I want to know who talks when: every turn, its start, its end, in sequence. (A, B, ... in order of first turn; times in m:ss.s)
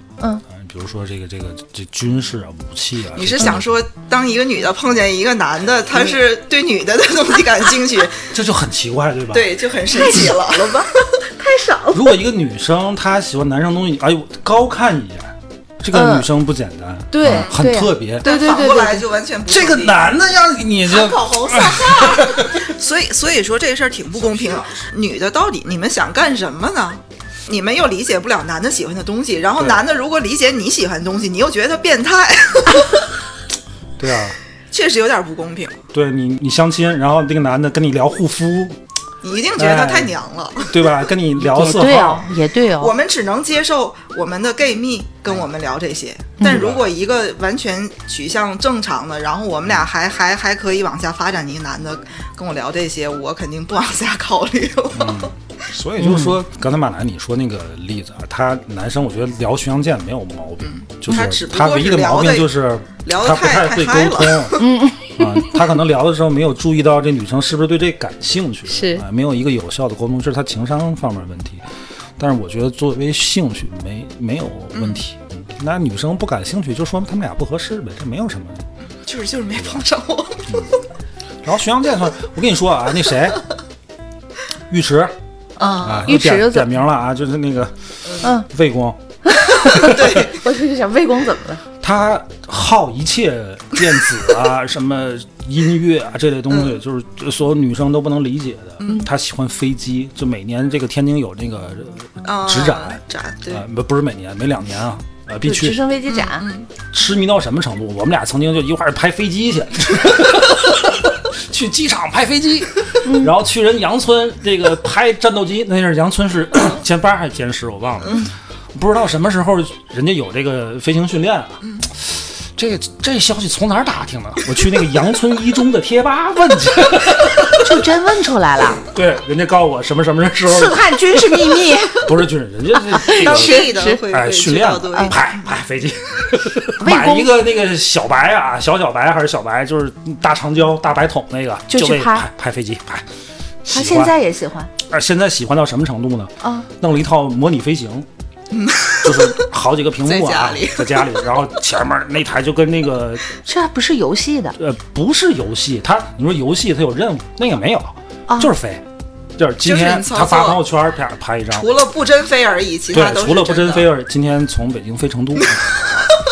0:00.5-0:03.7 A
0:03.2-0:08.3 B
0:08.3-0:09.5 A
0:09.3-0:11.0 B
0:09.9-0:12.1 C
0:11.9-0:18.3 A
0:15.9-0:16.3 C
0:17.1-0:19.0 C
0:17.2-0:17.5 B
0:18.2-0:20.1 B
0:19.5-0:22.7 A
0:20.9-0:33.1 B
0:24.4-0:24.7 A
0:34.0-0:34.4 A
0:34.7-0:35.8 B
0:35.9-0:38.8 A
0:39.2-0:41.0 B
0:39.6-0:40.1 A
0:40.7-0:42.3 A
0:41.4-0:42.9 C
0:42.8-0:55.3 B
0:46.4-0:46.9 A
0:54.9-1:11.6 A
0:56.0-0:56.4 C
1:00.6-1:04.6 B
1:04.6-1:05.5 C
1:08.7-1:09.0 C
1:12.2-1:18.6 A
1:14.7-1:15.0 B
1:19.0-1:20.7 B
1:19.6-1:19.8 A
1:21.4-1:23.4 A
1:24.7-1:25.2 A
1:25.6-1:26.7 C
1:25.6-1:26.1 B
1:25.8-1:29.0 A
1:28.2-1:28.5 C
1:29.2-1:31.6 C
1:29.6-1:30.3 A
1:29.6-1:30.4 B
1:31.8-1:45.8 A
1:36.5-1:36.8 B
1:38.8-1:39.1 B
1:42.2-1:43.6 B
1:45.4-1:46.4 C
1:46.1-1:46.7 B
1:46.9-2:07.8 A
1:53.0-1:53.3 C
2:07.6-2:08.8 C
2:08.8-2:23.0 A
2:10.4-2:12.1 C
2:12.8-2:14.0 C
2:13.1-2:15.5 B
2:16.8-2:17.3 C
2:21.7-2:22.3 C
2:23.6-2:24.2 A
2:23.7-2:24.7 C
2:24.8-2:28.1 A
2:26.4-2:26.7 C
2:28.5-2:29.4 B
2:29.0-2:33.3 A
2:30.0-2:31.2 B
2:33.4-2:34.6 C
2:34.6-2:38.8 A
2:38.3-2:38.5 C
2:39.4-2:41.7 A
2:39.6-2:40.6 B
2:41.5-2:43.9 B
2:42.9-2:46.1 A
2:45.4-2:46.2 B